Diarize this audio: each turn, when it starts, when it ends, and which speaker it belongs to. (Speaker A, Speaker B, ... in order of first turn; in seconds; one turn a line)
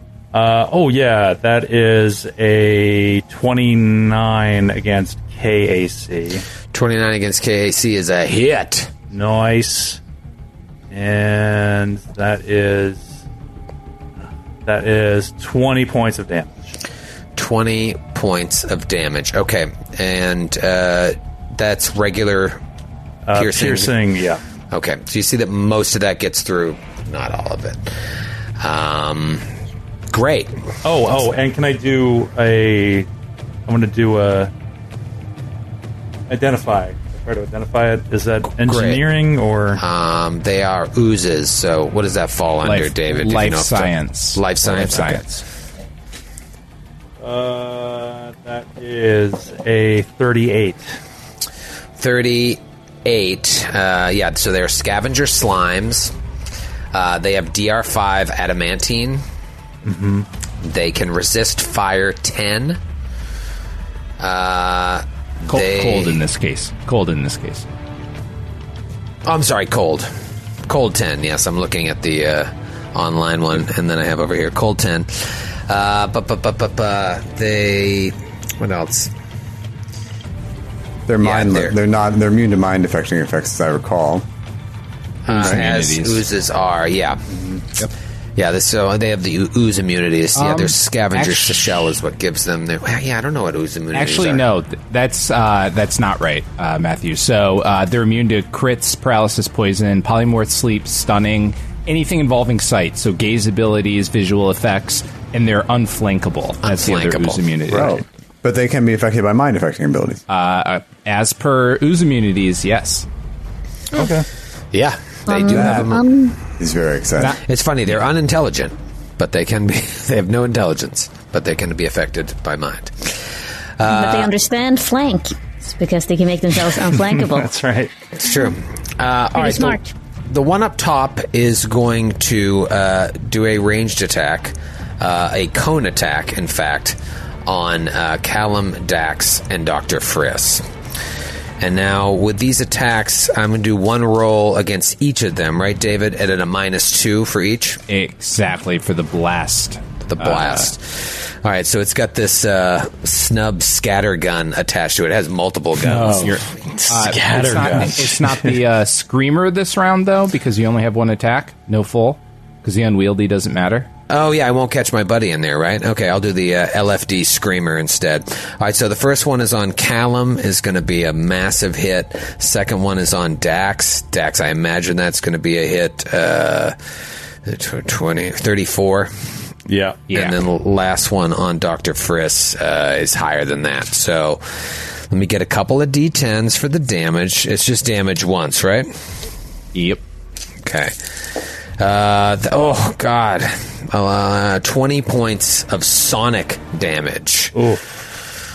Speaker A: 0.3-6.4
Speaker B: 6.7-8.9
Speaker A: 9.1-10.0
Speaker A: 10.9-13.2
Speaker A: 14.6-16.7
Speaker B: 17.4-22.6
Speaker A: 23.2-24.4
Speaker B: 23.3-23.9
Speaker B: 24.7-27.9
Speaker B: 28.6-29.5
Speaker B: 30.1-30.6
Speaker A: 30.8-33.1
Speaker A: 33.7-34.5
Speaker A: 36.3-39.8
Speaker B: 38.6-39.1
Speaker B: 39.8-45.3
Speaker C: 42.6-45.4
Speaker A: 47.2-51.0
Speaker B: 52.0-56.1
Speaker B: 56.9-59.2
Speaker A: 59.8-60.2
Speaker B: 60.6-62.8
Speaker B: 64.2-66.2
Speaker C: 65.5-67.7
Speaker B: 69.2-70.1
Speaker B: 70.7-79.1
Speaker D: 81.1-84.2
Speaker B: 81.2-81.7
Speaker B: 85.2-87.2
Speaker C: 85.3-86.2
Speaker A: 87.3-87.6
Speaker B: 88.3-94.4
Speaker C: 90.3-91.7
Speaker C: 93.9-108.0
Speaker B: 106.6-107.4
Speaker D: 107.7-110.2
Speaker A: 107.7-108.0
Speaker C: 110.3-113.0
Speaker A: 113.9-114.3
Speaker B: 114.7-116.0
Speaker E: 115.3-116.4
Speaker D: 116.6-117.4
Speaker B: 117.4-123.3
Speaker B: 123.8-124.3
Speaker E: 123.8-127.5
Speaker A: 126.9-127.9
Speaker B: 128.2-140.6
Speaker E: 129.3-129.9
Speaker B: 141.6-147.8
Speaker C: 147.9-150.7
Speaker B: 150.1-156.3
Speaker F: 155.8-158.5
Speaker C: 156.1-163.9
Speaker B: 164.1-176.8
Speaker B: 177.4-179.1
Speaker F: 179.7-180.0
Speaker C: 180.1-180.3
Speaker B: 180.1-188.9
Speaker C: 189.7-190.0
Speaker B: 190.6-190.9
Speaker B: 191.8-197.6
Speaker A: 197.5-197.8